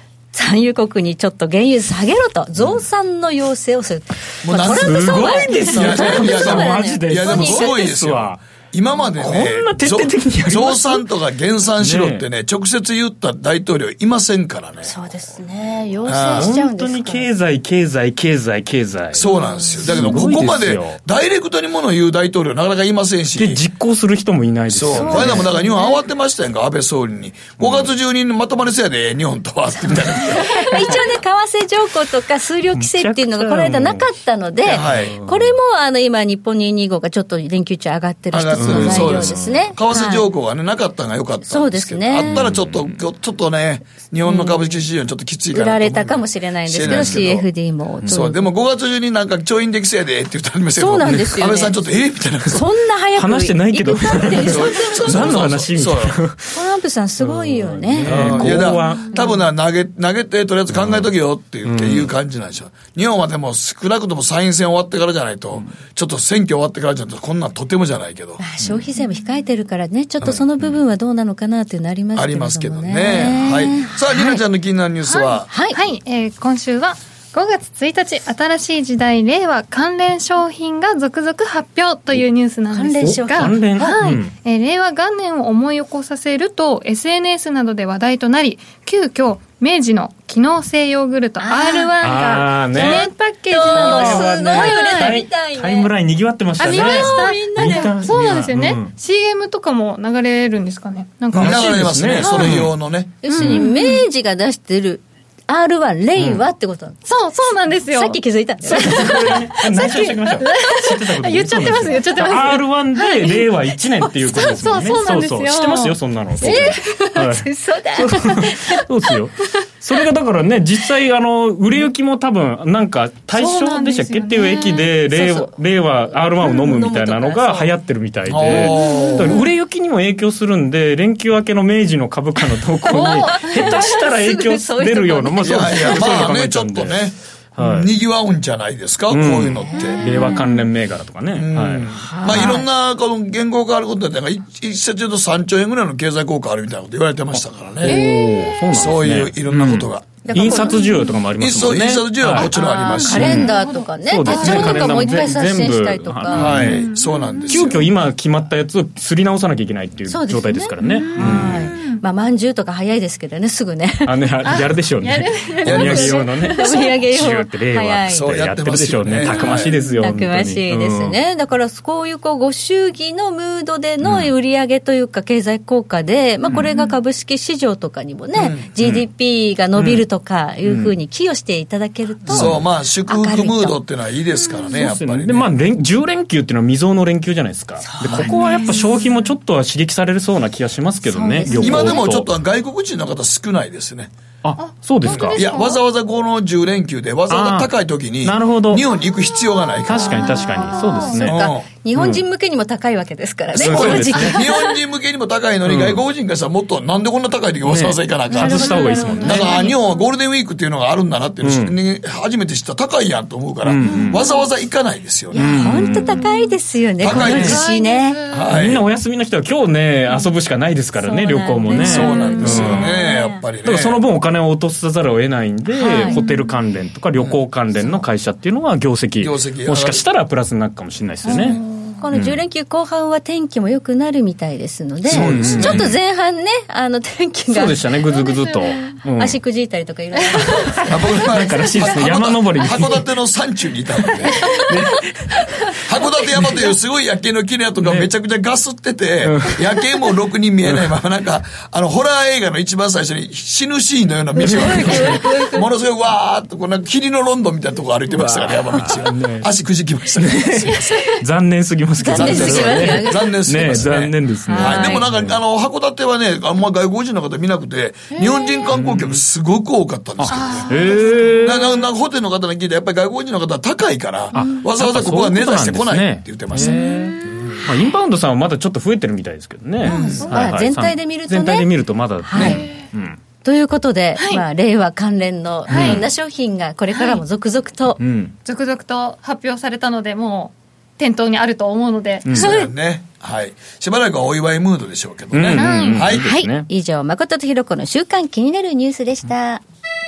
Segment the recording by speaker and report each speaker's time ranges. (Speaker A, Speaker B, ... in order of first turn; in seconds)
Speaker A: 0.3-7.9, 14.8-17.3, 19.3-20.2, 24.9-26.0, 30.1-40.2, 41.5-42.4, 44.2-44.8, 45.5-48.5, 50.8-51.8, 52.5-55.2, 56.5-59.3, 68.4-74.4, 75.5-75.8, 82.7-83.9, 91.4-91.9, 92.7-95.9, 96.6-98.0, 103.2-107.0, 107.9-109.5, 116.4-118.8, 125.0-125.5, 126.1-127.7, 132.8-136.2, 139.6-140.5, 142.0-142.7, 150.2-151.0, 152.6-156.5, 160.1-164.1, 165.7-168.3, 169.2-183.8, 187.9-188.9, 191.1-191.9, 200.8-204.7, 208.3-209.7, 215.3-218.2, 221.0-223.4, 225.7-226.2, 231.3-237.9, 239.2-240.8, 254.3-255.7, 262.0-263.3, 264.5-265.1, 279.9-281.7, 282.2-282.6, 283.4-288.0, 296.1-299.6
Speaker B: 4.4-14.9, 16.1-16.5, 19.1-23.6, 24.7-30.9, 34.6-35.1, 38.3-47.5, 48.0-52.6, 54.3-56.2, 58.0-68.4, 72.1-75.5, 101.3-103.2, 128.3-129.4, 135.4-140.0, 141.3-148.0, 148.7-150.5, 151.4-153.4, 156.3-157.8, 165.6-166.2, 168.1-169.7, 178.3-178.7, 182.3-185.5, 191.6-194.1, 195.2-200.4, 201.2-201.6, 203.5-215.7, 217.0-217.6, 218.3-218.8, 221.8-224.0, 229.2-230.0, 235.1-235.9, 240.9-244.4, 245.8-261.0, 262.1-270.7, 271.4-276.8, 279.8-280.3, 292.3-296.3
Speaker C: 4.6-8.4, 9.2-11.1, 11.8-12.2, 16.3-19.2, 19.8-21.0, 23.4-25.5, 27.6-27.9, 32.7-34.1, 34.7-35.5, 38.6-39.7, 42.2-43.0, 46.8-47.2, 53.1-56.5, 57.2-59.1, 60.7-61.0, 61.6-62.1, 83.0-84.3, 92.0-93.1, 93.6-98.9, 101.3-102.7, 103.4-103.7, 106.2-106.4, 108.6-137.9, 139.1-142.4, 147.8-156.8, 157.5-161.7, 164.0-171.2, 174.0-174.3, 178.8-179.1, 179.8-180.0, 180.7-180.9, 182.3-182.6, 184.7-192.3, 194.4-195.4, 197.3-198.8, 199.8-201.4, 201.9-202.2, 203.6-204.4, 205.7-206.0, 207.6-209.5, 211.4-211.7, 213.6-214.2, 215.3-216.2, 217.1-217.6, 218.5-222.9, 223.6-231.6, 232.1-232.4, 235.1-235.9, 237.5-239.4, 241.3-243.1, 244.5-245.2, 247.8-248.1, 249.2-249.7, 254.4-255.2, 258.1-259.5, 260.1-265.4, 268.7-269.2, 270.2-271.7, 274.3-283.2, 285.7-286.0, 288.0-288.3, 292.2-292.5, 295.3-296.7
Speaker D: 75.1-95.2, 96.6-102.5, 103.2-104.0, 107.0-108.2, 108.7-113.5, 114.1-116.8, 123.3-124.9, 128.8-129.3, 132.9-133.7, 152.4-155.2, 156.6-157.5, 160.8-162.0, 164.4-166.9, 176.7-177.0, 191.5-191.8, 194.6-195.8, 200.1-201.2, 208.8-209.8, 216.1-216.5, 217.1-218.5, 221.9-222.4, 225.9-226.5, 231.4-231.9, 238.3-238.7, 270.3-271.6, 282.4-282.8, 284.1-284.4, 285.7-286.0, 286.9-287.2, 288.4-292.5, 295.5-296.0